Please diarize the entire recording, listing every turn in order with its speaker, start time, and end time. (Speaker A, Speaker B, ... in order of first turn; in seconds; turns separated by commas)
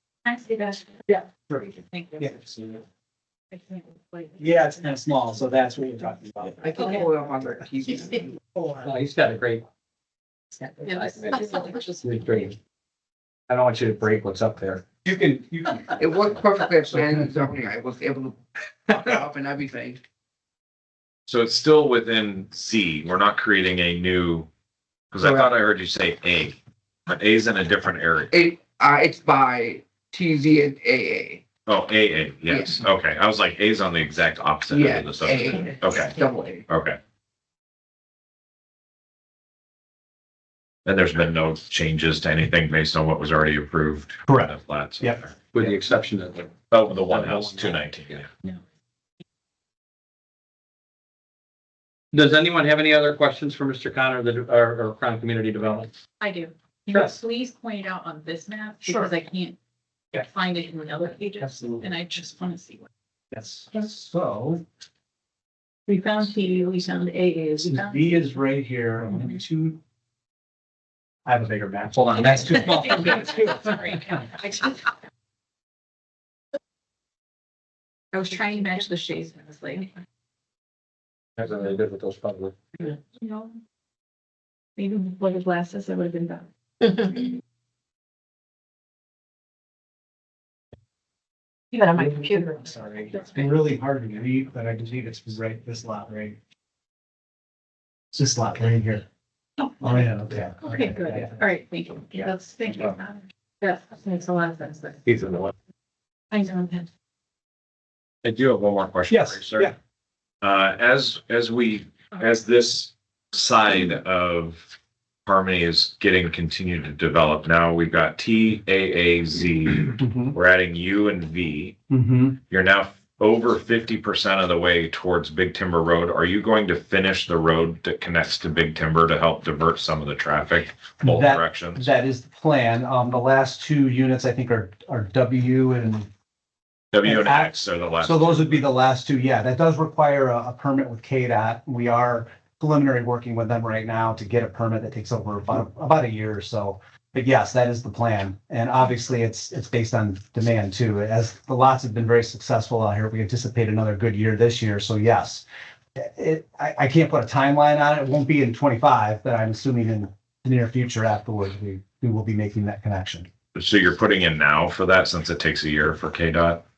Speaker A: 0.2-1.1, Speaker B: 1.1-2.4, Speaker A: 1.9-2.4, Speaker A: 3.5-4.5, Speaker B: 4.4-7.0, Speaker C: 6.6-8.3, Speaker B: 8.5-8.9, Speaker D: 8.8-9.6, Speaker D: 10.6-12.6, Speaker A: 10.8-12.3, Speaker D: 13.5-15.2, Speaker B: 15.1-15.8, Speaker C: 16.0-20.0, Speaker E: 21.3-24.5, Speaker E: 25.1-28.3, Speaker C: 25.2-25.5, Speaker C: 28.3-31.4, Speaker E: 31.7-36.1, Speaker C: 32.5-32.8, Speaker C: 34.7-36.6, Speaker E: 36.7-37.0, Speaker E: 40.8-45.3, Speaker B: 44.3-45.2, Speaker D: 45.5-47.8, Speaker E: 46.7-48.3, Speaker D: 52.1-55.9, Speaker A: 56.2-59.6, Speaker B: 58.8-59.1, Speaker A: 60.1-62.8, Speaker B: 61.4-61.8, Speaker B: 63.3-64.6, Speaker A: 65.9-68.3, Speaker B: 67.6-69.8, Speaker B: 71.2-74.6, Speaker A: 72.9-73.7, Speaker A: 74.3-74.8, Speaker A: 78.1-79.9, Speaker D: 81.4-82.6, Speaker A: 83.2-83.6, Speaker A: 84.8-87.4, Speaker A: 91.7-93.4, Speaker B: 91.9-96.4, Speaker B: 98.1-99.0, Speaker B: 99.8-101.4, Speaker A: 100.6-105.0, Speaker D: 105.1-105.5, Speaker A: 106.3-106.9, Speaker E: 108.2-109.7, Speaker B: 109.1-109.8, Speaker E: 110.4-114.7, Speaker E: 115.2-121.8, Speaker B: 120.0-120.4, Speaker B: 121.9-122.4, Speaker E: 122.5-131.9, Speaker B: 131.0-136.1, Speaker E: 136.9-138.7, Speaker B: 137.0-155.4, Speaker B: 155.9-163.3, Speaker E: 163.5-166.6